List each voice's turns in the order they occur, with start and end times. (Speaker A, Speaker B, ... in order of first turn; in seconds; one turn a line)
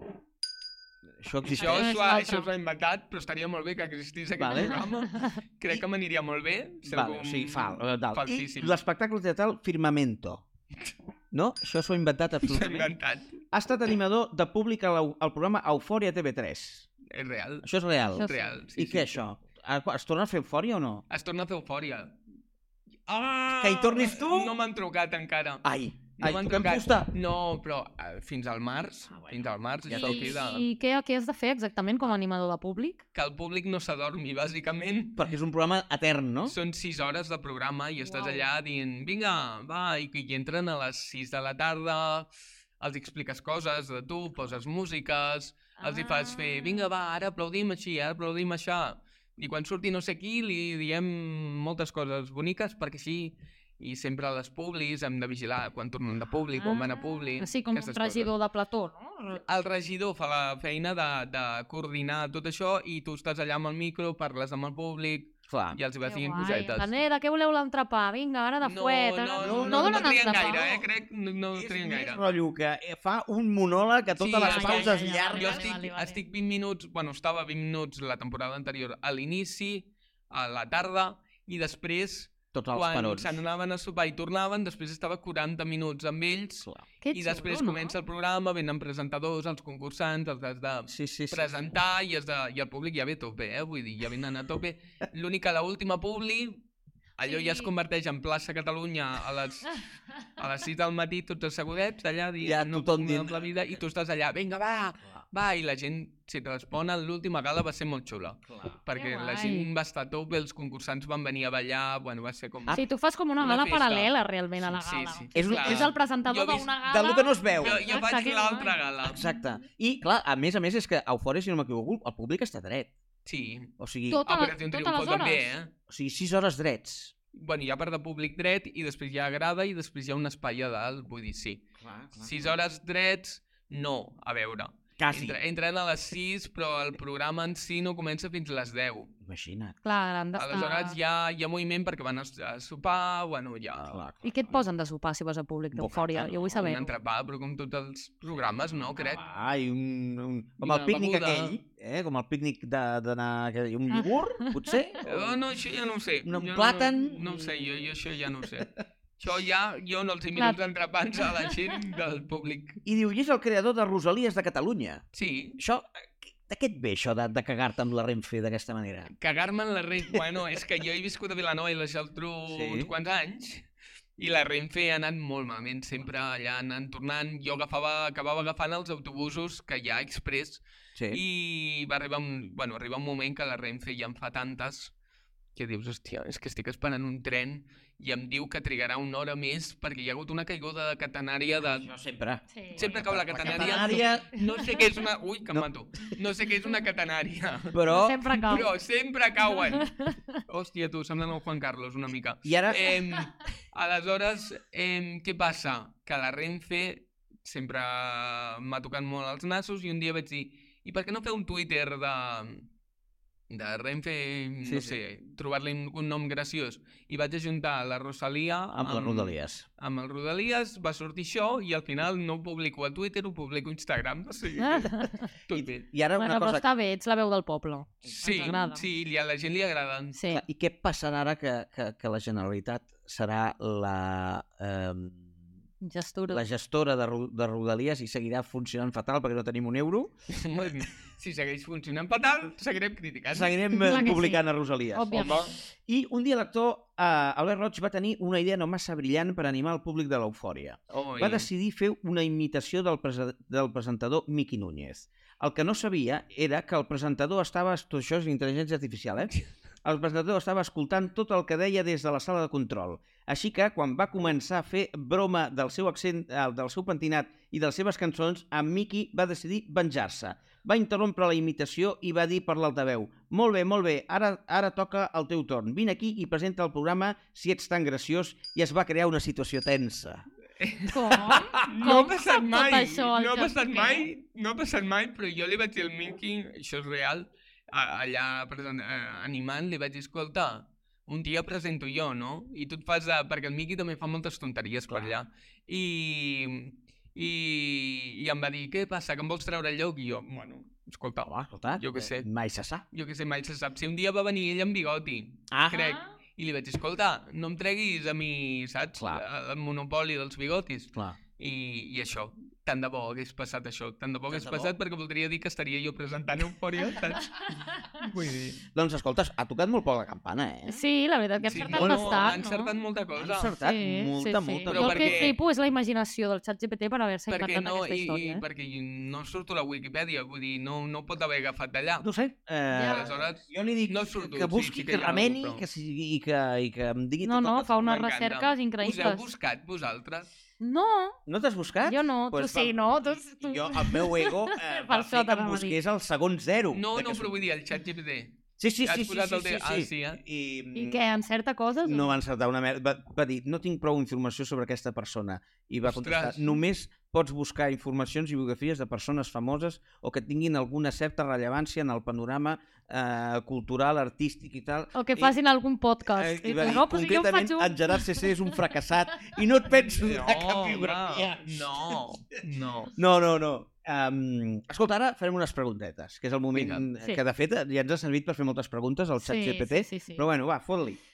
Speaker A: 1.2-1.9
Speaker B: 1.5-8.8
Speaker C: 1.6-2.5
Speaker A: 4.4-4.8
Speaker C: 4.5-5.3
Speaker A: 6.8-10.4
Speaker A: 11.3-12.9
Speaker B: 12.4-13.4
Speaker A: 13.5-16.9
Speaker B: 17.1-19.2
Speaker A: 17.6-21.0
Speaker B: 21.1-22.1
Speaker B: 23.1-30.6
Speaker A: 23.5-24.6
Speaker A: 25.6-27.1
Speaker A: 29.1-30.5
Speaker C: 29.9-33.0
Speaker B: 33.1-35.2
Speaker A: 35.1-36.5
Speaker B: 36.5-42.3
Speaker C: 38.0-38.5
Speaker B: 42.8-58.3
Speaker C: 45.8-46.9
Speaker C: 56.5-59.4
Speaker B: 59.5-66.9
Speaker A: 65.5-65.8
Speaker C: 66.0-70.8
Speaker B: 68.6-72.2
Speaker A: 69.4-70.8
Speaker A: 71.5-75.7
Speaker B: 74.2-96.6
Speaker C: 74.3-76.2
Speaker A: 82.5-83.4
Speaker C: 87.0-87.9
Speaker A: 90.9-91.5
Speaker B: 97.2-99.8
Speaker C: 97.2-97.7
Speaker B: 100.4-112.8
Speaker A: 102.4-103.5
Speaker A: 108.5-108.8
Speaker C: 109.0-109.7
Speaker C: 112.7-118.8
Speaker B: 113.4-114.1
Speaker B: 114.6-116.7
Speaker A: 115.3-115.9
Speaker A: 116.8-117.8
Speaker B: 117.6-119.2
Speaker A: 119.0-122.9
Speaker B: 123.2-123.7
Speaker A: 123.8-124.2
Speaker C: 124.1-125.5
Speaker B: 124.2-125.7
Speaker A: 125.9-127.1
Speaker B: 127.3-131.6
Speaker A: 131.8-132.6
Speaker B: 132.2-139.1
Speaker A: 135.0-135.4
Speaker A: 139.2-139.8
Speaker C: 139.8-141.0
Speaker B: 140.4-144.0
Speaker A: 143.8-144.6
Speaker C: 144.2-146.9
Speaker A: 145.8-146.4
Speaker B: 146.4-149.2
Speaker A: 148.8-155.4
Speaker B: 150.6-151.6
Speaker B: 155.0-162.8
Speaker A: 156.2-157.8
Speaker A: 162.8-165.0
Speaker B: 165.1-165.6
Speaker A: 165.6-169.1
Speaker B: 169.2-184.9
Speaker A: 172.5-172.9
Speaker A: 180.9-181.2
Speaker B: 185.5-191.9
Speaker A: 191.6-194.3
Speaker C: 192.5-192.8
Speaker B: 192.8-199.9
Speaker C: 193.4-193.8
Speaker A: 197.7-198.3
Speaker C: 197.9-198.7
Speaker C: 199.6-200.4
Speaker B: 200.5-212.7
Speaker A: 202.4-202.9
Speaker B: 213.5-225.9
Speaker A: 214.6-215.0
Speaker A: 218.7-219.7
Speaker C: 224.6-225.3
Speaker A: 225.5-226.6
Speaker C: 226.2-228.8
Speaker B: 228.2-230.2
Speaker C: 230.1-230.4
Speaker A: 230.3-235.3
Speaker C: 235.8-236.4
Speaker A: 236.3-240.1
Speaker B: 240.3-244.1
Speaker A: 243.3-280.2
Speaker C: 243.8-245.5
Speaker B: 245.1-245.5
Speaker B: 250.9-251.5
Speaker B: 280.6-302.3
Speaker C: 280.9-284.1
Speaker A: 281.1-281.6
Speaker A: 301.2-302.8
Speaker B: 302.9-318.6
Speaker A: 305.5-305.9
Speaker A: 309.0-309.2
Speaker A: 314.3-314.8
Speaker A: 318.7-320.8
Speaker C: 320.7-322.7
Speaker B: 321.4-323.5
Speaker A: 321.7-322.4
Speaker A: 323.2-325.3
Speaker C: 323.6-328.4
Speaker B: 324.7-325.4
Speaker B: 327.3-332.1
Speaker A: 332.0-338.0
Speaker C: 332.7-333.1
Speaker B: 332.9-335.6
Speaker C: 337.2-339.2
Speaker B: 337.8-340.3
Speaker C: 340.6-341.2
Speaker A: 341.3-347.3
Speaker C: 341.9-345.8
Speaker B: 346.7-350.2
Speaker A: 348.6-351.0
Speaker C: 350.8-352.1
Speaker A: 351.8-365.3
Speaker B: 355.8-356.5
Speaker C: 364.9-368.3
Speaker A: 366.1-372.0
Speaker B: 369.9-372.9
Speaker A: 373.0-381.0
Speaker B: 376.5-376.9
Speaker C: 379.2-380.2